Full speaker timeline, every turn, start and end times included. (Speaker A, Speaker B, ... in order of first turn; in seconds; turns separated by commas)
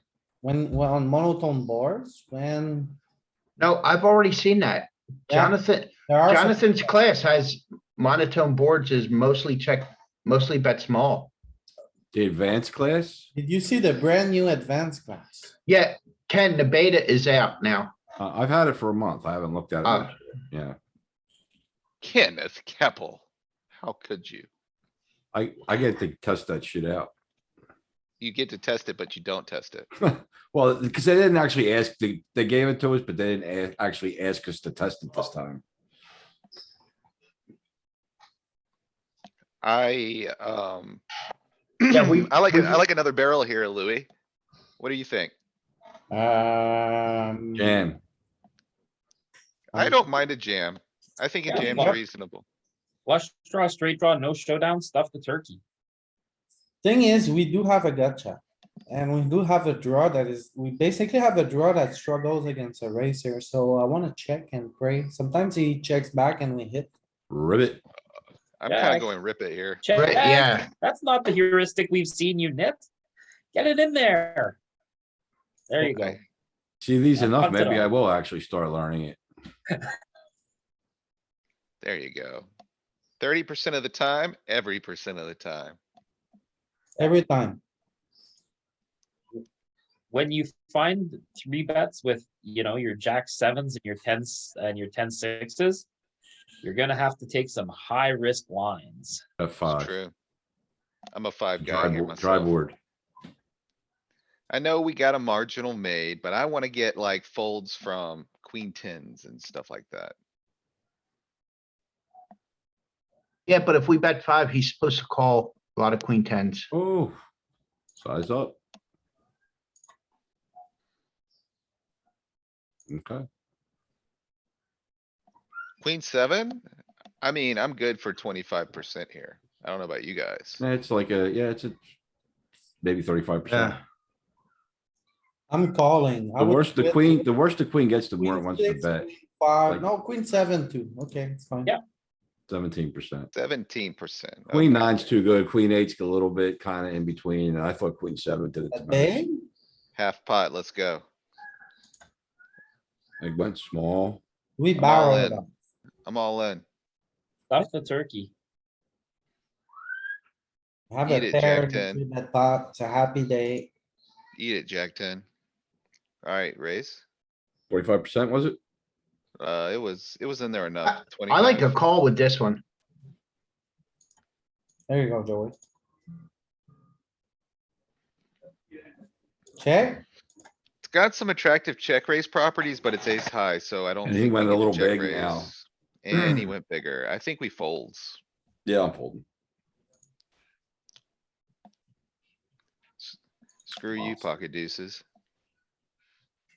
Speaker A: 0.4-3.0, Speaker B: 3.6-11.3, Speaker A: 5.3-6.9, Speaker C: 12.1-13.3, Speaker A: 13.3-15.5, Speaker B: 15.7-17.9, Speaker C: 18.2-20.8, Speaker B: 19.8-20.1, Speaker D: 22.0-24.5, Speaker C: 25.3-27.1, Speaker D: 28.2-29.9, Speaker C: 30.0-35.6, Speaker D: 39.6-41.0, Speaker D: 41.8-44.1, Speaker B: 41.9-42.9, Speaker D: 44.8-45.3, Speaker A: 46.1-47.9, Speaker C: 47.6-48.0, Speaker A: 49.7-50.0, Speaker D: 49.7-52.4, Speaker E: 51.5-51.9, Speaker A: 51.5-52.0, Speaker E: 53.0-55.6, Speaker A: 56.8-66.9, Speaker C: 67.3-67.8, Speaker D: 68.6-69.8, Speaker E: 68.7-69.1, Speaker E: 69.8-72.8, Speaker B: 69.9-70.7, Speaker E: 73.5-74.6, Speaker E: 75.7-76.2, Speaker D: 75.8-76.2, Speaker C: 76.8-79.2, Speaker E: 77.2-77.9, Speaker D: 81.8-82.5, Speaker D: 83.2-85.8, Speaker A: 87.0-87.6, Speaker E: 90.1-95.8, Speaker E: 96.6-99.2, Speaker C: 99.4-99.9, Speaker D: 99.7-100.1, Speaker D: 101.1-102.5, Speaker C: 101.6-102.7, Speaker D: 104.5-110.2, Speaker B: 113.5-116.7, Speaker C: 116.7-117.2, Speaker C: 118.0-118.6, Speaker C: 122.9-123.2, Speaker D: 125.8-126.6, Speaker D: 127.2-130.6, Speaker C: 130.6-131.8, Speaker C: 132.8-133.8, Speaker A: 133.5-133.8, Speaker A: 135.5-137.3, Speaker C: 136.4-139.1, Speaker A: 138.2-141.7, Speaker C: 142.5-143.3, Speaker D: 143.3-145.1, Speaker C: 144.5-149.2, Speaker A: 148.7-149.4, Speaker D: 149.9-151.0, Speaker C: 153.2-154.2, Speaker A: 154.6-155.5, Speaker D: 154.8-155.4, Speaker D: 156.0-156.6, Speaker E: 157.5-158.3, Speaker A: 160.9-163.7, Speaker D: 161.1-162.0, Speaker D: 164.4-165.2, Speaker D: 166.2-167.0, Speaker C: 167.7-168.6, Speaker D: 169.4-171.8, Speaker B: 170.8-172.6, Speaker A: 174.9-175.5, Speaker A: 179.6-180.0, Speaker D: 180.8-188.2, Speaker C: 184.0-185.5, Speaker C: 186.1-186.5, Speaker C: 188.7-189.2, Speaker D: 193.0-195.0